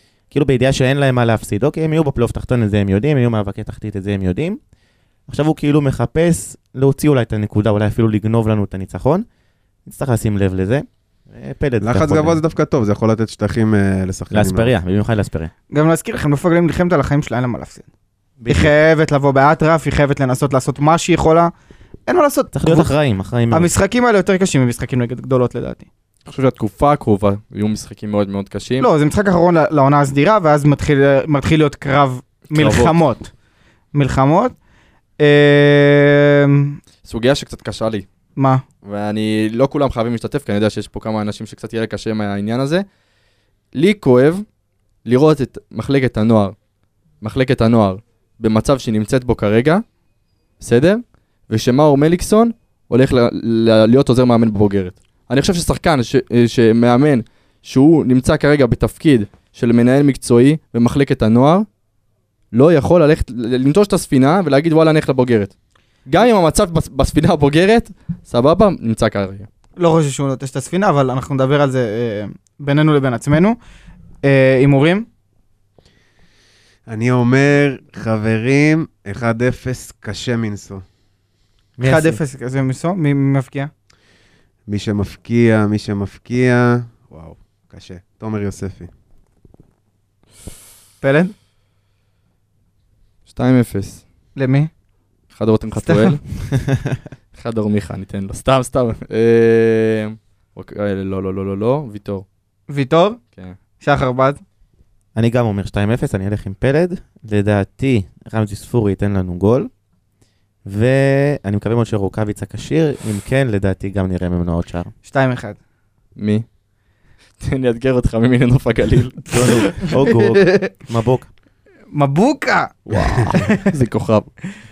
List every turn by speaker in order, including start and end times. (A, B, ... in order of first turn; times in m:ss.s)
0:00.3-0:04.6 A
0:05.3-0:09.3 A
0:09.9-0:12.4 A
0:11.8-0:14.7 B
0:14.3-0:15.5 A
0:15.7-0:17.8 C
0:18.4-0:18.7 A
0:18.5-0:21.5 C
0:22.1-0:22.9 C
0:22.5-0:23.7 A
0:23.5-0:25.9 C
0:26.3-0:28.9 D
0:28.8-0:33.3 C
0:32.5-0:33.0 D
0:33.9-0:34.6 C
0:35.2-0:36.8 C
0:37.0-0:38.0 D
0:38.4-0:38.6 C
0:38.8-0:42.8 D
0:43.7-0:44.4 D
0:45.0-0:46.6 D
0:47.2-0:49.8 D
0:50.6-1:01.7 D
1:02.5-1:05.5 D
1:06.1-1:09.5 D
1:09.8-1:13.6 C
1:14.2-1:15.1 C
1:16.9-1:20.8 B
1:21.8-1:22.2 A
1:21.8-1:23.7 C
1:24.7-1:28.9 B
1:31.0-1:31.3 C
1:33.3-1:34.0 D
1:34.4-1:34.7 C
1:35.3-1:36.2 D
1:35.8-1:36.1 C
1:36.6-1:37.0 A
1:37.3-1:42.3 D
1:42.7-1:43.2 C
1:43.8-1:44.4 C
1:45.1-1:49.7 A
1:50.6-1:54.9 A
1:55.0-1:55.6 C
1:56.2-1:56.4 D
1:57.4-1:59.5 D
1:59.3-2:01.3 A
1:59.4-2:00.7 C
2:01.9-2:03.6 C
2:02.9-2:04.3 D